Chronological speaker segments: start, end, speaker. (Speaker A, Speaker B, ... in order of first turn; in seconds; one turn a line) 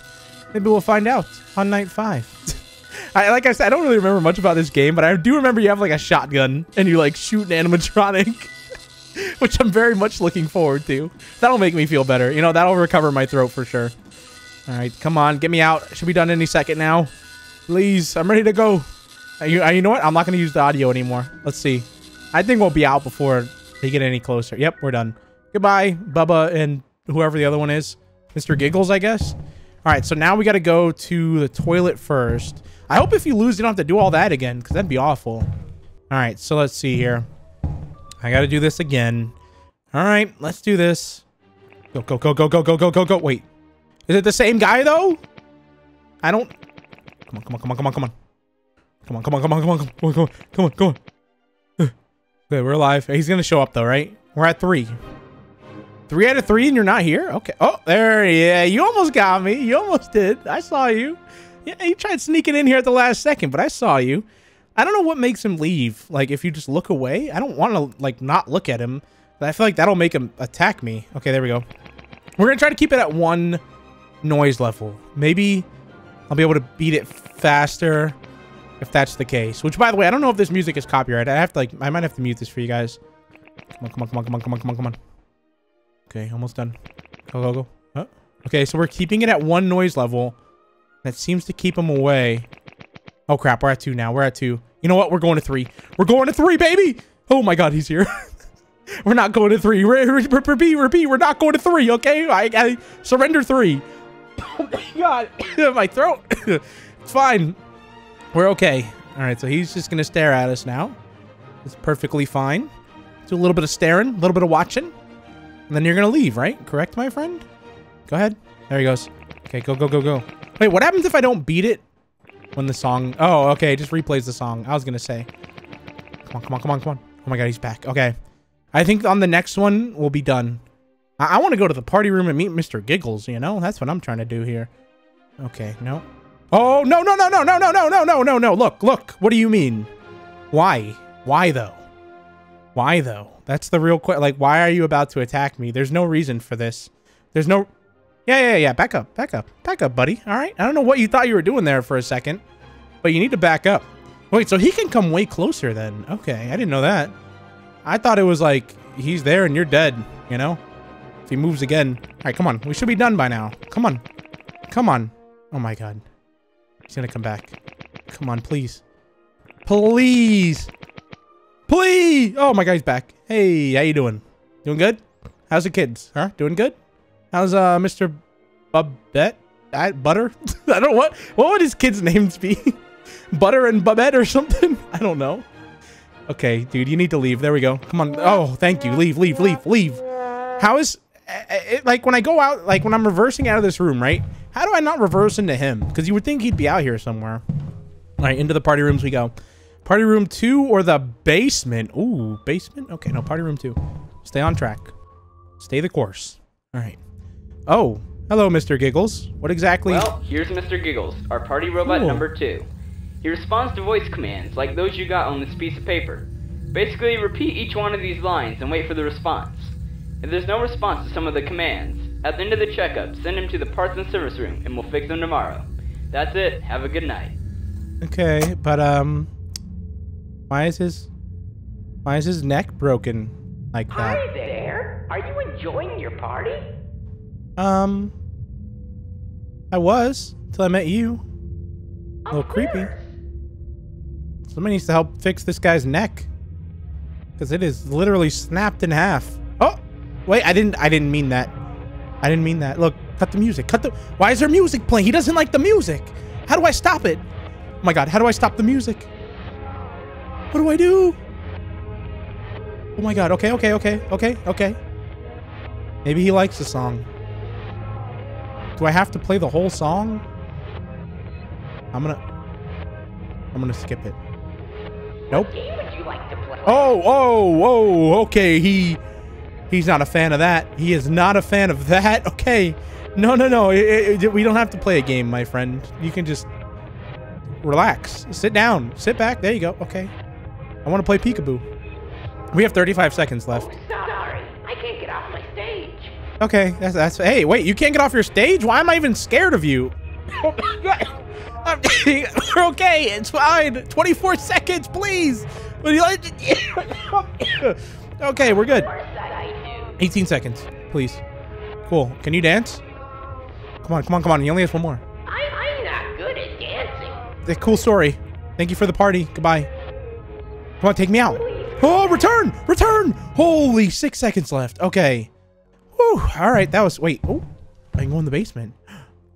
Speaker A: 0.5-8.5
Speaker A: 9.2-13.9
Speaker A: 14.7-17.1
Speaker A: 17.7-18.9
Speaker A: 19.4-35.5
Speaker A: 36.1-37.3
Speaker A: 38.2-39.3
Speaker A: 39.9-41.2
Speaker A: 41.9-43.4
Speaker A: 44.1-45.2
Speaker A: 46.2-46.5
Speaker A: 47.3-48.1
Speaker A: 49.0-51.0
Speaker A: 52.5-55.0
Speaker A: 56.1-71.6
Speaker A: 72.4-73.6
Speaker A: 74.2-75.7
Speaker A: 76.3-78.2
Speaker A: 78.8-83.0
Speaker A: 83.7-85.0
Speaker A: 86.1-90.3
Speaker A: 91.0-92.5
Speaker A: 93.3-98.3
Speaker A: 99.0-103.8
Speaker A: 104.4-107.6
Speaker A: 108.3-110.9
Speaker A: 111.6-112.7
Speaker A: 113.2-114.9
Speaker A: 115.7-117.4
Speaker A: 118.1-121.8
Speaker A: 122.5-125.3
Speaker A: 126.2-128.1
Speaker A: 128.7-130.6
Speaker A: 131.2-134.7
Speaker A: 135.4-139.9
Speaker A: 140.5-141.8
Speaker A: 142.7-147.7
Speaker A: 148.3-152.4
Speaker A: 153.0-157.1
Speaker A: 157.8-160.6
Speaker A: 161.2-164.0
Speaker A: 164.7-166.0
Speaker A: 166.9-167.5
Speaker A: 168.1-168.8
Speaker A: 169.6-170.7
Speaker A: 171.7-176.7
Speaker A: 177.3-178.2
Speaker A: 178.7-182.8
Speaker A: 183.3-185.4
Speaker A: 186.3-190.0
Speaker A: 190.6-197.4
Speaker A: 198.2-199.3
Speaker A: 199.8-204.9
Speaker A: 205.6-207.0
Speaker A: 207.7-210.1
Speaker B: 209.8-212.7
Speaker A: 211.8-212.2
Speaker B: 213.2-227.3
Speaker A: 228.0-229.3
Speaker A: 230.5-231.1
Speaker A: 232.0-234.2
Speaker C: 233.9-236.6
Speaker A: 237.6-238.1
Speaker A: 239.7-241.2
Speaker C: 242.2-243.0
Speaker A: 242.3-242.9
Speaker A: 244.5-246.3
Speaker A: 247.4-251.5
Speaker A: 252.2-257.2
Speaker A: 257.8-259.1
Speaker A: 260.5-261.2
Speaker A: 263.0-264.8
Speaker A: 266.0-267.1
Speaker A: 268.8-270.2
Speaker A: 271.9-272.2
Speaker A: 273.5-274.2
Speaker C: 275.3-277.0
Speaker A: 276.6-279.0
Speaker A: 279.7-286.5
Speaker A: 287.6-290.1
Speaker A: 290.8-291.6
Speaker A: 292.5-293.7
Speaker C: 293.5-296.2
Speaker A: 296.4-308.9
Speaker C: 308.4-310.0
Speaker A: 310.0-311.2
Speaker A: 311.9-312.8
Speaker A: 313.8-315.0
Speaker C: 315.2-317.2
Speaker A: 317.4-319.7
Speaker A: 320.8-325.3
Speaker C: 321.2-322.3
Speaker A: 325.9-327.4
Speaker A: 328.0-328.8